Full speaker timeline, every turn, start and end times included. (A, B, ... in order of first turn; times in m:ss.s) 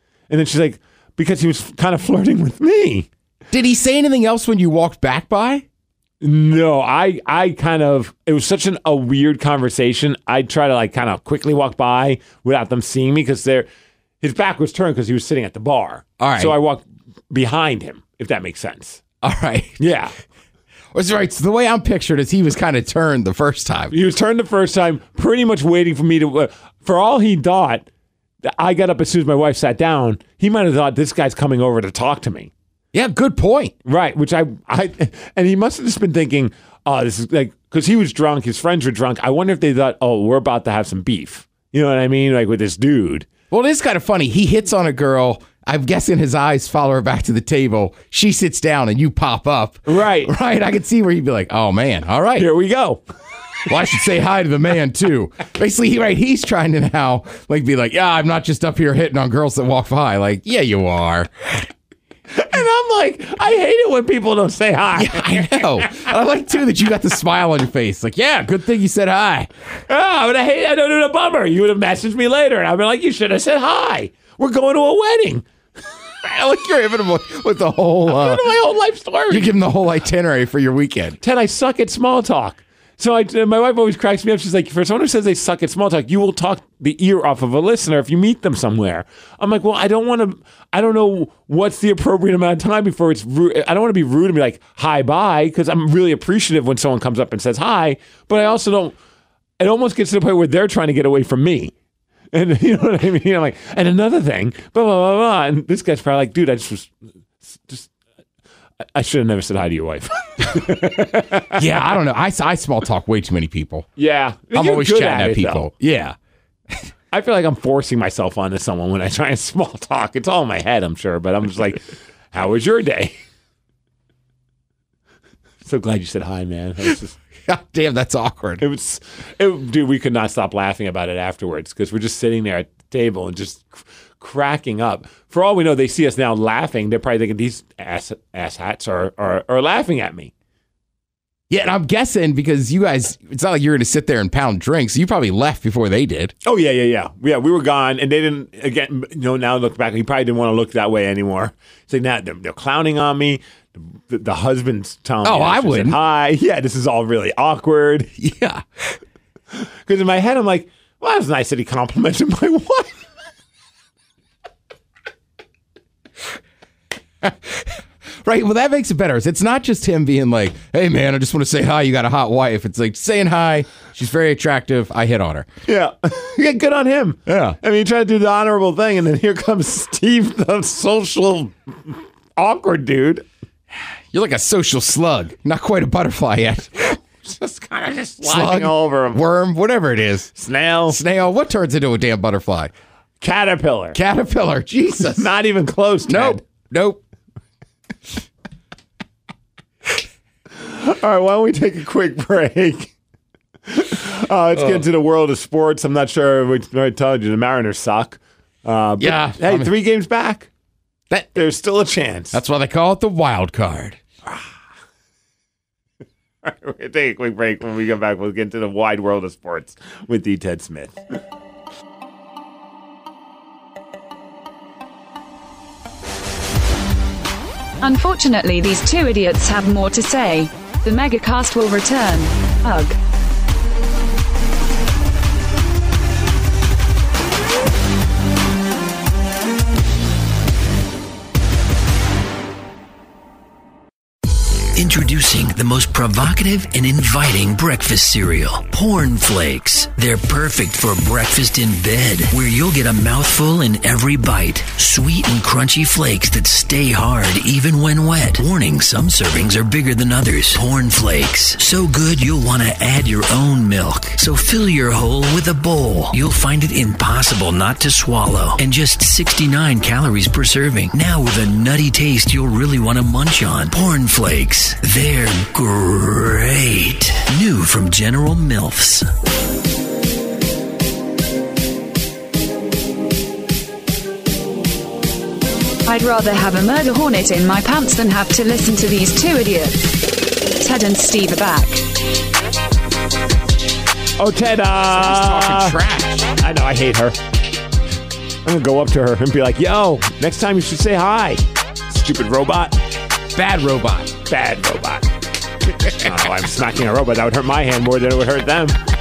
0:00.3-0:03.1 A
0:03.5-0:05.6 B
0:06.2-0:13.7 A
0:14.2-0:19.0 A
0:16.2-0:16.6 B
0:19.2-0:19.8 B
0:19.8-0:20.1 A
0:20.9-0:23.9 B
0:23.9-0:27.9 A
0:28.4-0:32.5 A
0:32.9-0:33.7 B
0:33.8-0:43.3 A
0:43.5-0:52.5 B
0:49.8-0:50.3 A
0:52.4-0:53.0 A
0:53.7-1:01.7 B
1:02.3-1:06.1 A
1:04.9-1:09.5 B
1:09.9-1:15.4 A
1:16.2-1:18.5 B
1:18.1-1:19.6 A
1:19.3-1:21.2 B
1:21.2-1:39.0 A
1:39.6-1:41.7 A
1:42.3-1:46.9 A
1:47.4-1:47.9 A
1:48.9-1:51.6 A
1:51.5-1:53.9 B
1:54.0-1:55.7 A
1:54.5-1:56.2 B
1:57.1-2:03.1 A
2:05.6-2:07.2 A
2:07.4-2:08.6 B
2:08.6-2:20.3 A
2:21.5-2:26.3 B
2:26.4-2:38.1 A
2:35.2-2:36.0 B
2:38.2-2:38.6 B
2:39.5-2:43.0 A
2:47.2-2:55.5 B
2:55.6-3:03.2 A
2:57.3-2:57.6 B
3:04.1-3:07.0 B
3:07.2-3:09.2 A
3:08.2-3:10.3 B
3:10.3-3:11.0 A
3:10.9-3:12.7 B
3:13.2-3:14.0 A
3:13.9-3:15.3 B
3:15.0-3:16.4 A
3:16.1-3:17.0 B
3:20.5-3:22.9 A
3:23.7-3:30.5 A
3:24.6-3:24.8 B
3:29.0-3:29.7 B
3:31.1-3:31.4 B
3:31.3-3:32.4 A
3:32.3-3:34.0 B
3:36.4-3:41.0 A
3:47.8-3:53.0 C
4:04.7-4:39.1 D
4:45.8-4:49.9 C
4:50.6-4:51.8 C
4:54.2-4:55.8 A
4:54.9-4:56.3 B
4:56.4-4:57.2 A
4:58.4-5:02.8 A
5:03.3-5:04.1 B
5:04.2-5:05.1 A
5:05.9-5:08.8 A